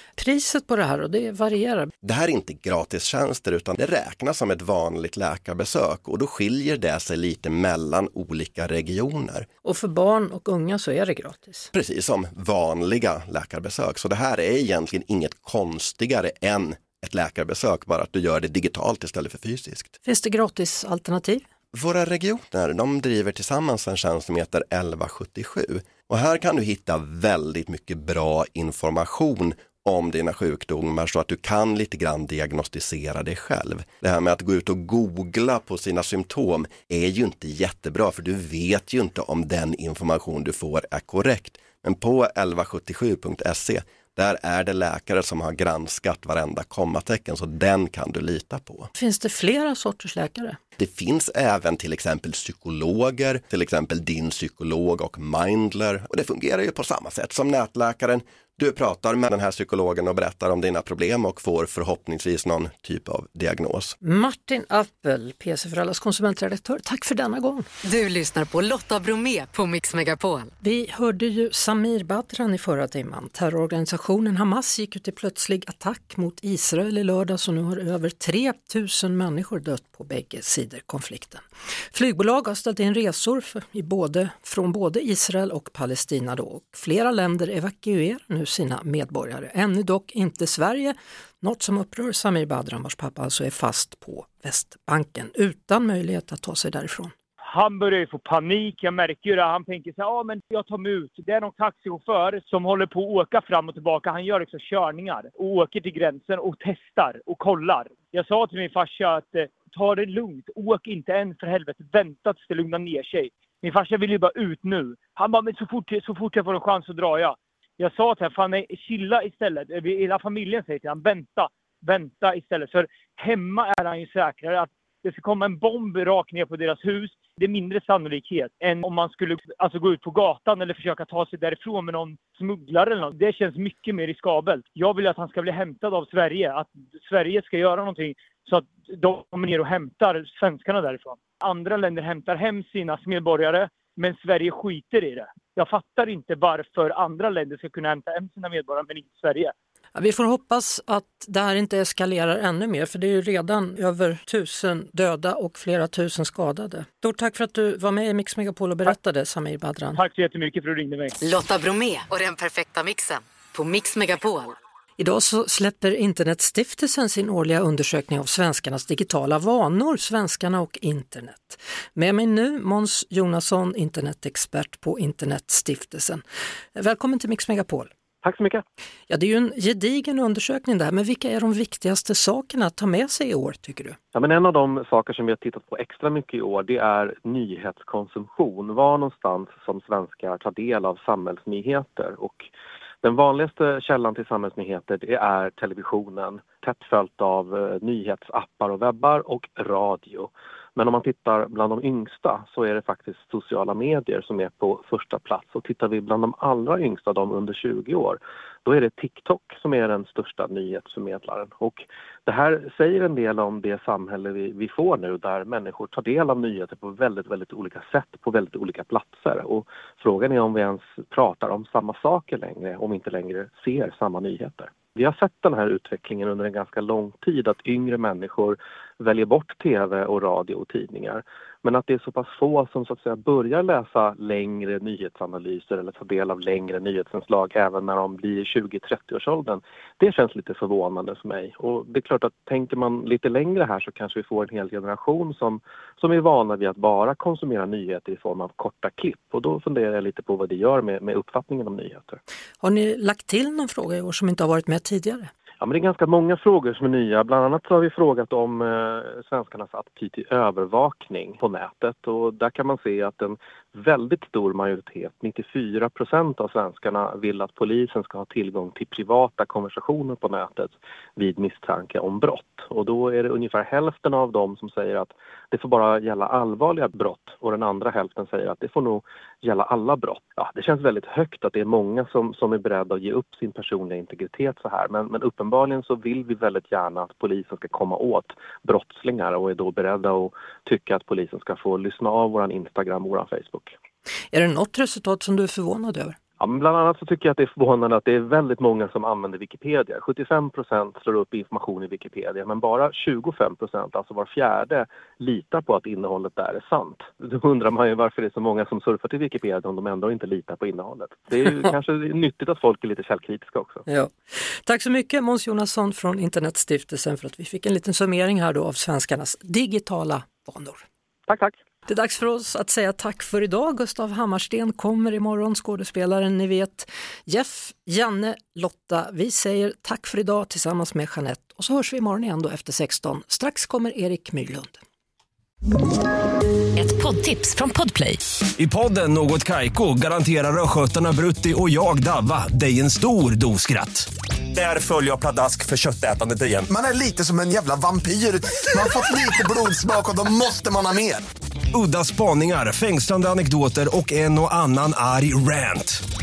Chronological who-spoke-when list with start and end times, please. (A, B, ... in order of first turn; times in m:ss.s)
0:00.2-0:01.9 A
0:02.0-0:09.4 B
0:09.6-0:11.7 A
0:11.7-0:19.9 B
0:20.0-0:21.4 A
0:21.7-0:48.9 B
0:48.9-0:50.6 A
0:50.8-1:04.0 B
1:04.0-1:07.6 A
1:07.8-1:10.5 C
1:10.6-1:37.1 A
1:37.5-2:29.5 D
2:29.9-2:40.0 A
2:40.0-2:41.2 D
2:41.2-2:44.6 C
2:45.0-2:56.2 A
2:56.7-2:57.9 A
2:58.2-2:58.6 E
2:59.1-3:04.0 A
3:04.1-3:12.5 E
3:13.0-4:12.2 E
4:12.6-4:15.3 A
4:15.6-4:53.7 E
4:54.3-4:56.2 A
4:56.4-5:13.8 E
5:13.9-5:20.8 A
5:21.3-5:21.5 E
5:21.8-5:34.8 A
5:36.8-5:38.2 C
5:38.6-5:46.7 F
5:46.7-5:51.2 G
5:51.7-5:56.0 F